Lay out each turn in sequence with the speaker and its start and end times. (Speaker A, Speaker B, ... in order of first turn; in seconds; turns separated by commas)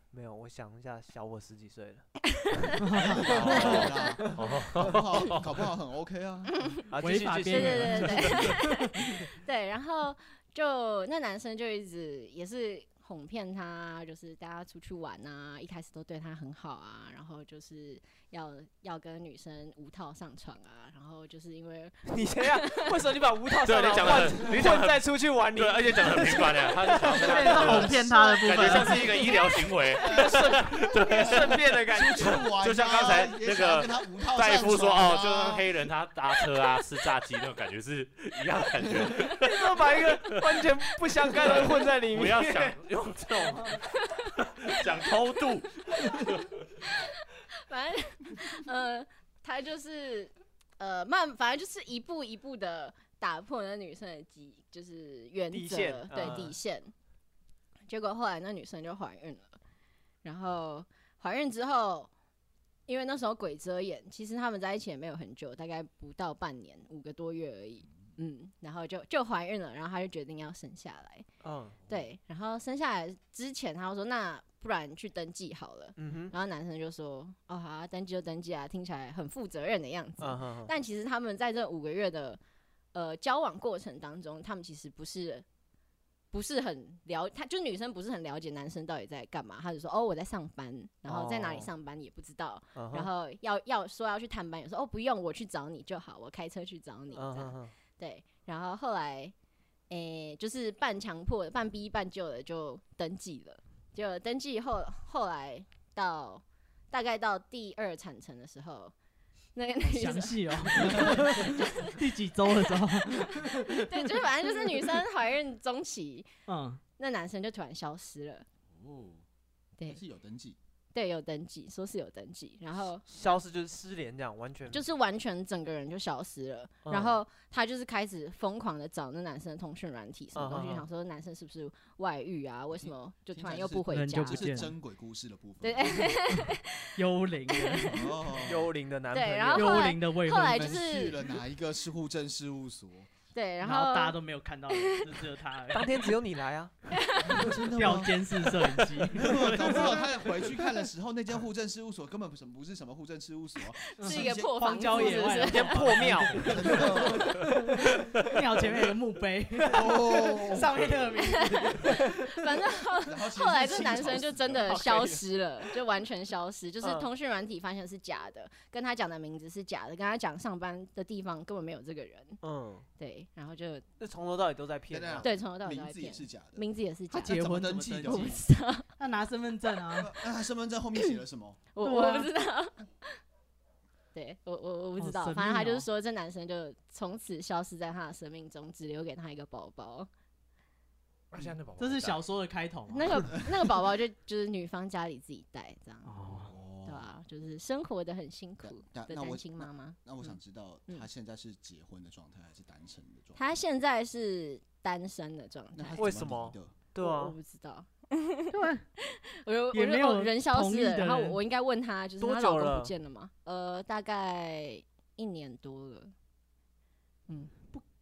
Speaker A: 0.1-2.1, Speaker B: 2.4-4.3, Speaker C: 2.8-3.7, Speaker D: 2.9-6.7, Speaker A: 3.3-4.4, Speaker E: 3.4-5.6, Speaker B: 6.6-6.8, Speaker A: 6.9-8.3, Speaker C: 7.0-9.2, Speaker B: 7.5-22.9, Speaker E: 8.1-8.5, Speaker A: 22.1-32.5, Speaker E: 23.6-40.6, Speaker C: 27.2-29.1, Speaker D: 30.0-35.7, Speaker A: 39.3-42.8, Speaker E: 41.2-46.9, Speaker B: 47.7-56.9, Speaker A: 55.5-56.6, Speaker B: 57.9-59.5, Speaker B: 60.2-62.1, Speaker B: 62.9-71.3, Speaker A: 71.4-71.8, Speaker B: 71.9-82.4, Speaker A: 76.0-76.3, Speaker A: 80.2-80.7, Speaker B: 82.9-85.5, Speaker B: 86.3-99.3, Speaker A: 91.1-91.7, Speaker A: 92.8-93.1, Speaker A: 97.2-97.7, Speaker B: 99.9-108.9, Speaker B: 109.5-112.0, Speaker C: 109.8-114.9, Speaker B: 112.7-116.3, Speaker C: 116.5-116.8, Speaker B: 117.0-118.5, Speaker D: 118.7-119.2, Speaker D: 119.9-120.6, Speaker B: 120.9-123.0, Speaker A: 123.1-124.8, Speaker B: 124.7-134.7, Speaker A: 126.9-127.2, Speaker A: 130.3-130.9, Speaker D: 132.7-136.2, Speaker C: 133.9-134.7, Speaker B: 135.6-136.9, Speaker C: 136.3-138.0, Speaker B: 137.5-138.0, Speaker D: 137.9-138.7, Speaker A: 138.3-139.9, Speaker B: 139.1-141.2, Speaker C: 139.5-140.8, Speaker D: 140.4-143.1, Speaker B: 143.3-144.2, Speaker C: 143.6-146.0, Speaker B: 144.7-145.1, Speaker A: 145.7-146.7, Speaker B: 146.9-147.6, Speaker D: 147.2-148.5, Speaker C: 147.5-149.9, Speaker D: 149.1-155.2, Speaker A: 149.6-149.9, Speaker B: 153.9-157.1, Speaker C: 154.0-162.5, Speaker A: 155.4-156.5, Speaker D: 156.4-157.4, Speaker D: 159.7-160.8, Speaker B: 161.2-172.4, Speaker D: 163.0-164.8, Speaker A: 164.7-165.2, Speaker A: 166.8-167.1, Speaker A: 172.4-172.9, Speaker B: 173.0-173.8, Speaker A: 174.0-175.3, Speaker D: 174.9-176.7, Speaker B: 175.2-178.9, Speaker C: 177.1-178.4, Speaker D: 177.2-178.4, Speaker C: 179.0-180.2, Speaker D: 179.9-181.6, Speaker B: 181.7-183.2, Speaker C: 181.8-182.3, Speaker B: 184.1-190.1, Speaker C: 185.0-185.9, Speaker E: 191.3-192.2, Speaker C: 191.8-193.3, Speaker B: 192.9-200.0, Speaker C: 196.1-196.5, Speaker D: 196.3-197.1, Speaker D: 198.6-203.4, Speaker B: 203.3-206.2, Speaker D: 205.8-206.8, Speaker A: 206.0-207.4, Speaker B: 207.0-216.1, Speaker C: 208.5-208.8, Speaker C: 209.7-211.4, Speaker A: 212.2-212.9, Speaker B: 217.3-217.8